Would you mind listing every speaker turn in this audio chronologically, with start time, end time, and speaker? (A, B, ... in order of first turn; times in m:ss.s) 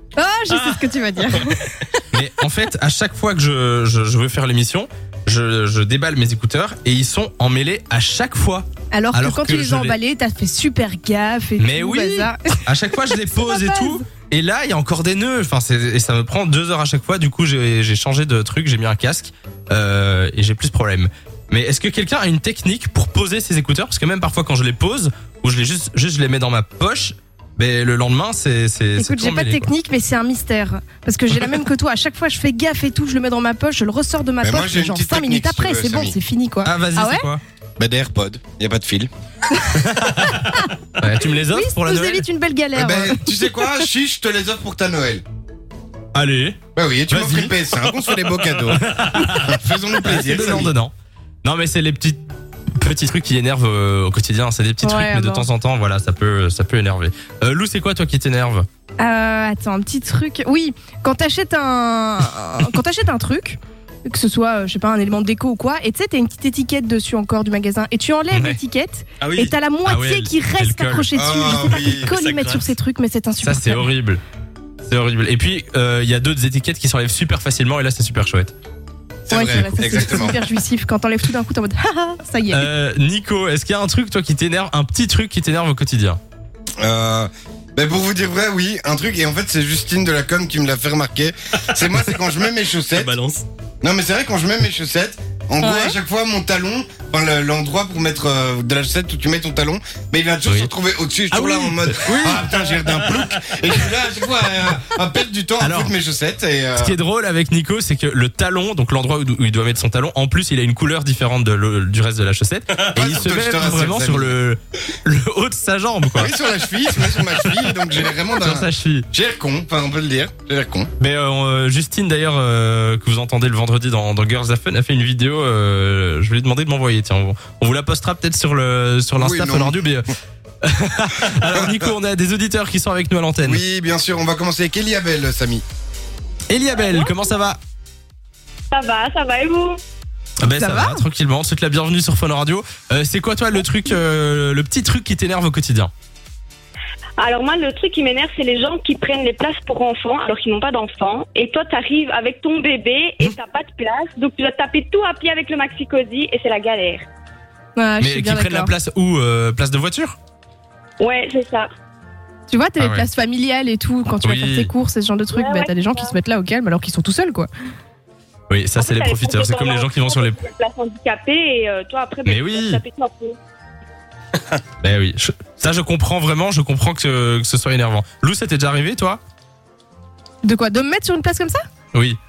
0:00.2-0:01.9 A
0:00.5-0:01.4 B
0:02.1-0:10.0 C
0:08.9-0:12.6 A
0:11.6-0:29.7 C
0:13.1-0:14.0 A
0:29.0-0:37.3 A
0:34.4-0:36.2 D
0:36.6-0:37.4 C
0:37.8-0:39.1 D
0:39.5-0:40.7 A
0:39.8-0:40.4 C
0:41.0-0:42.3 C
0:41.4-0:43.7 A
0:42.7-0:45.2 D
0:46.1-0:47.9 C
0:46.7-0:50.7 D
0:48.9-0:49.4 C
0:50.0-0:50.9 C
0:51.4-0:52.2 C
0:52.8-0:58.6 C
0:54.8-0:55.5 A
0:59.0-1:13.9 A
1:08.3-1:08.6 C
1:09.2-1:09.6 B
1:09.8-1:11.1 C
1:11.1-1:12.1 D
1:12.0-1:12.8 B
1:13.4-1:14.2 C
1:14.8-1:18.5 C
1:19.3-1:20.4 D
1:19.3-1:22.7 A
1:22.5-1:26.2 C
1:26.8-1:33.1 D
1:32.9-1:33.4 B
1:33.8-1:47.0 D
1:35.6-1:35.9 A
1:40.4-1:40.7 C
1:41.3-1:42.5 C
1:43.1-1:43.6 B
1:45.6-1:45.9 C
1:46.8-1:56.3 C
1:52.9-1:54.4 D
1:56.2-2:00.9 D
1:56.9-1:57.6 C
1:58.4-1:59.1 C
2:01.0-2:10.1 C
2:09.2-2:09.8 D
2:10.6-2:13.6 C
2:11.5-2:11.9 D
2:13.4-2:15.6 D
2:16.5-2:17.6 C
2:18.7-2:19.8 E
2:20.4-2:25.9 C
2:20.4-2:21.0 A
2:27.2-2:37.0 E
2:37.8-2:38.7 A
2:38.0-2:40.2 C
2:41.0-2:41.7 E
2:42.5-2:47.5 A
2:42.8-2:43.1 C
2:44.2-2:44.7 C
2:45.3-2:46.1 E
2:48.5-2:50.4 C
2:48.8-2:53.4 E
2:52.2-2:52.8 C
2:54.8-2:59.2 C
3:00.4-3:01.6 A
3:01.9-3:02.2 C